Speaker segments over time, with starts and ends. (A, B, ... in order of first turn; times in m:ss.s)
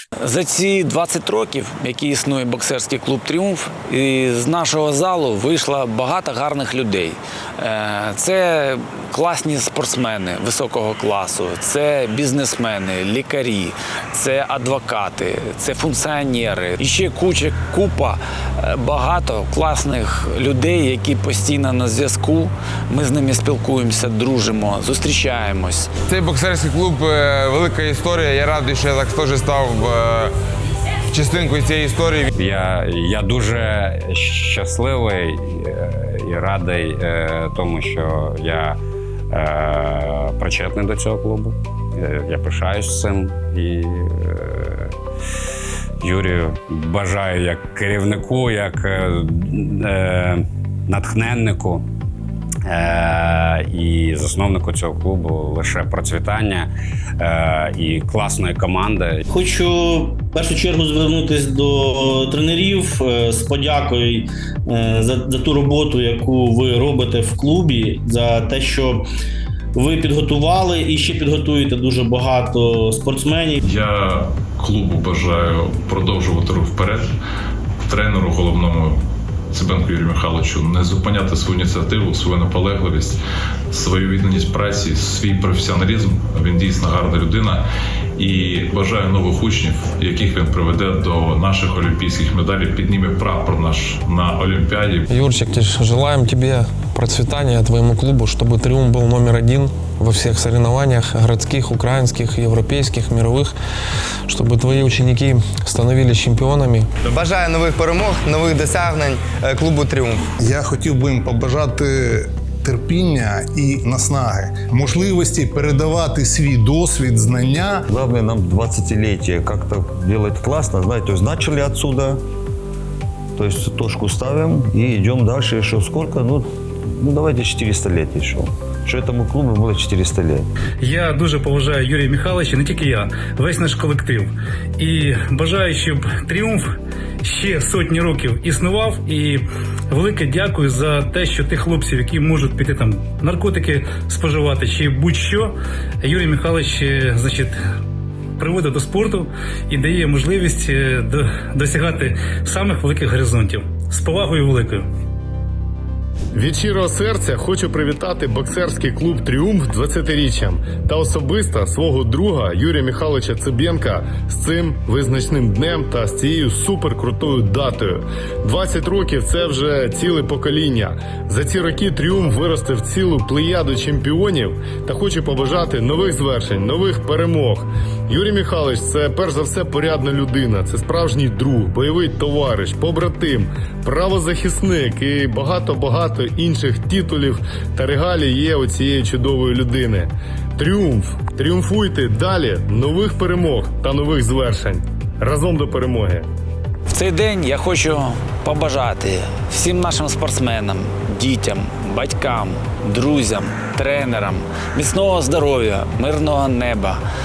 0:00.2-0:25.9 A
0:26.0-0:30.3 B
0:31.1-0:32.2 B
0:32.3-0:38.8 C
0:39.3-0:44.9 C
0:46.0-0:51.8 C
0:52.6-0:59.2 C
0:59.3-1:09.0 D
1:09.7-1:13.6 D
1:13.6-1:17.1 E
1:17.8-1:19.0 E
1:19.5-1:23.2 E
1:23.7-1:27.6 E
1:28.2-1:35.1 E
1:35.1-1:43.5 F
1:44.3-1:46.9 F
1:47.0-1:50.3 G
1:50.4-1:57.8 H
1:57.9-2:02.2 I
2:03.4-2:10.5 I
2:10.8-2:16.7 J
2:17.2-2:27.6 J
2:28.4-2:34.9 J
2:36.3-3:16.2 K
3:16.9-3:27.0 A